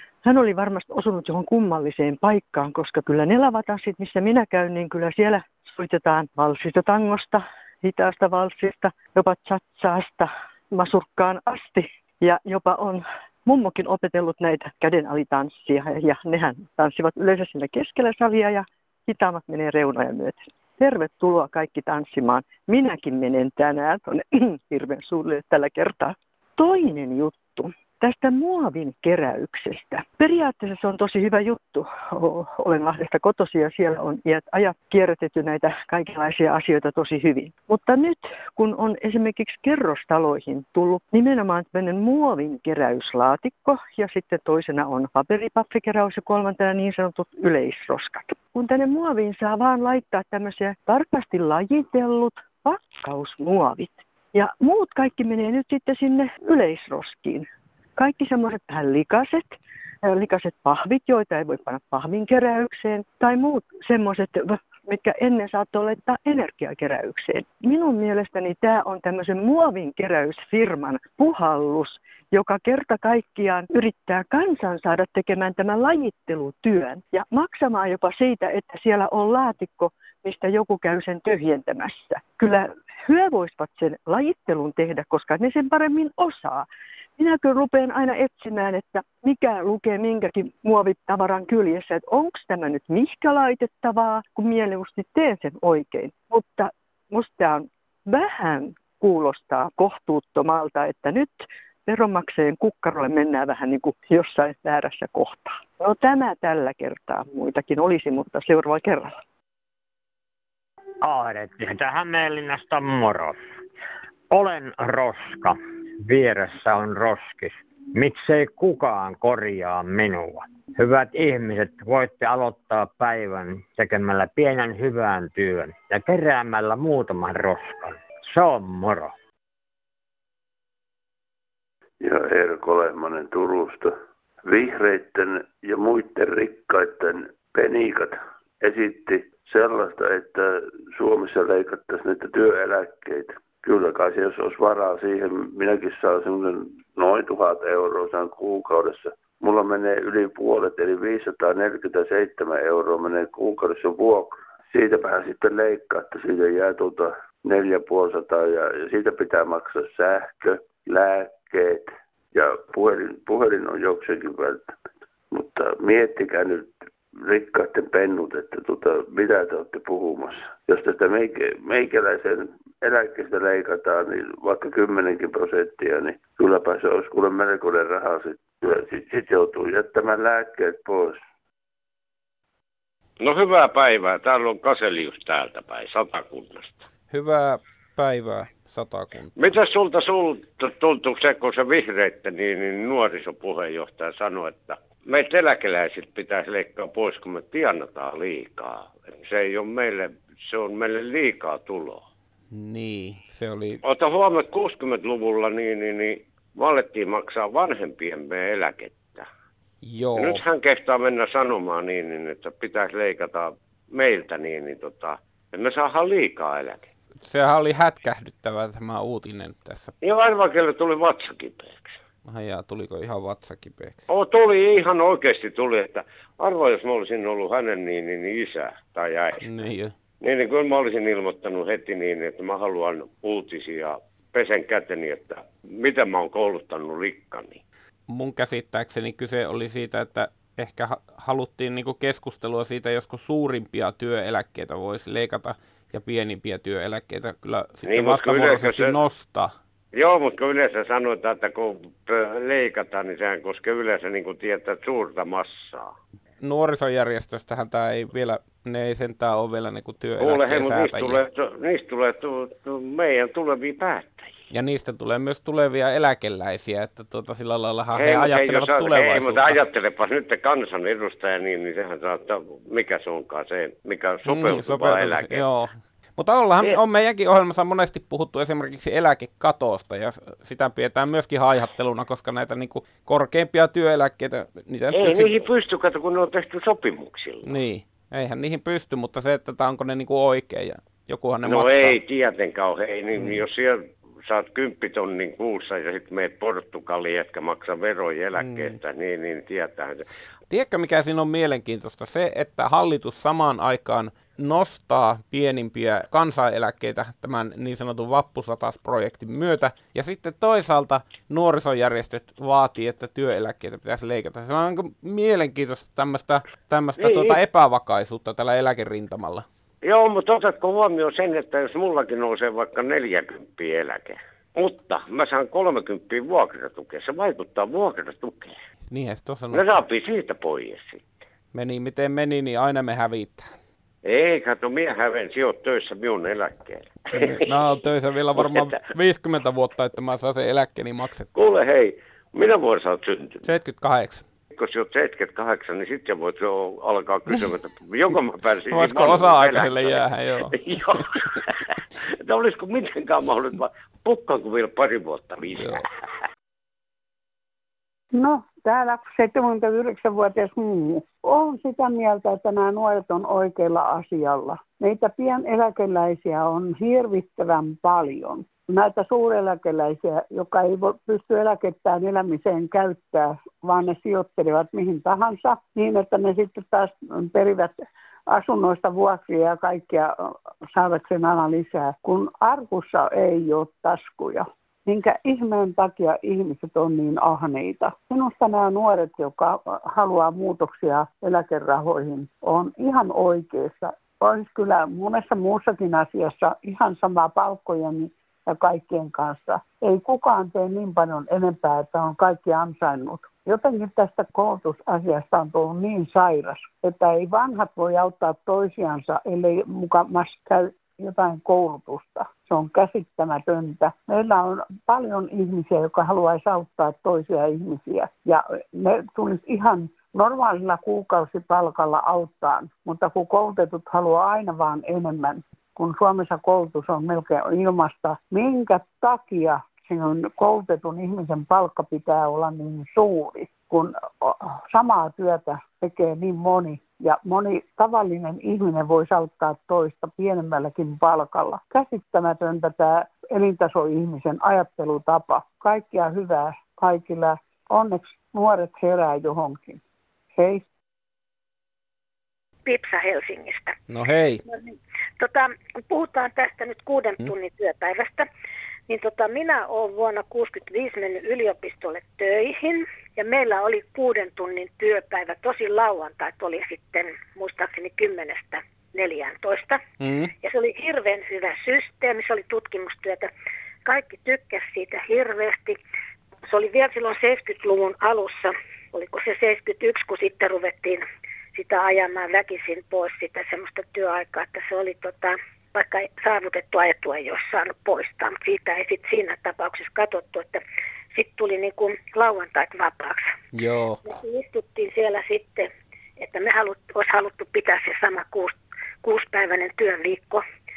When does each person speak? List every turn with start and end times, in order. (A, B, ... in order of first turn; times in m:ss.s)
0:00.2-1:49.2 A
1:51.0-1:53.4 B
1:54.3-2:09.1 B
2:12.0-2:44.8 C
2:45.3-3:01.2 C
3:03.2-3:06.8 D
3:07.1-3:09.5 E
3:09.4-3:22.0 D
3:22.5-3:23.8 E
3:23.8-3:29.3 D
3:29.8-3:30.4 E
3:30.2-3:36.9 D
3:37.2-3:39.9 E
3:40.0-3:42.0 D
3:42.3-3:44.0 E
3:44.1-3:49.4 D
3:49.4-3:49.9 E
3:50.2-3:57.6 D
3:58.1-4:09.5 E
4:07.9-4:09.0 D
4:09.9-4:15.9 D
4:16.4-4:21.2 E
4:20.2-4:24.4 D
4:24.5-4:29.6 E
4:28.0-4:35.4 D
4:34.3-4:45.4 E
4:44.9-4:47.5 D
4:47.4-4:52.0 E
4:51.4-5:00.1 D
4:53.2-4:53.4 E
4:58.4-4:58.8 E
5:00.5-5:19.4 E
5:17.0-5:17.4 D
5:19.8-5:28.6 D
5:28.9-5:29.8 E
5:29.5-5:31.0 D
5:31.5-5:33.5 E
5:34.0-5:37.5 D
5:37.1-5:41.3 E
5:38.4-5:38.8 D
5:41.4-5:43.4 D
5:43.4-5:44.2 E
5:44.6-5:55.9 D
5:48.7-5:50.6 E
5:55.6-5:55.8 E
5:58.1-6:17.8 F
6:18.3-7:29.8 F
7:30.4-7:30.6 F
7:32.7-7:33.8 G
7:33.9-7:34.4 E
7:34.5-7:38.3 G
7:38.9-7:49.8 G
7:50.0-7:50.3 E
7:50.4-7:53.3 G
7:53.8-7:55.8 G
7:56.5-8:10.6 G
8:11.1-8:13.3 G
8:13.5-8:14.0 E
8:14.1-8:20.4 G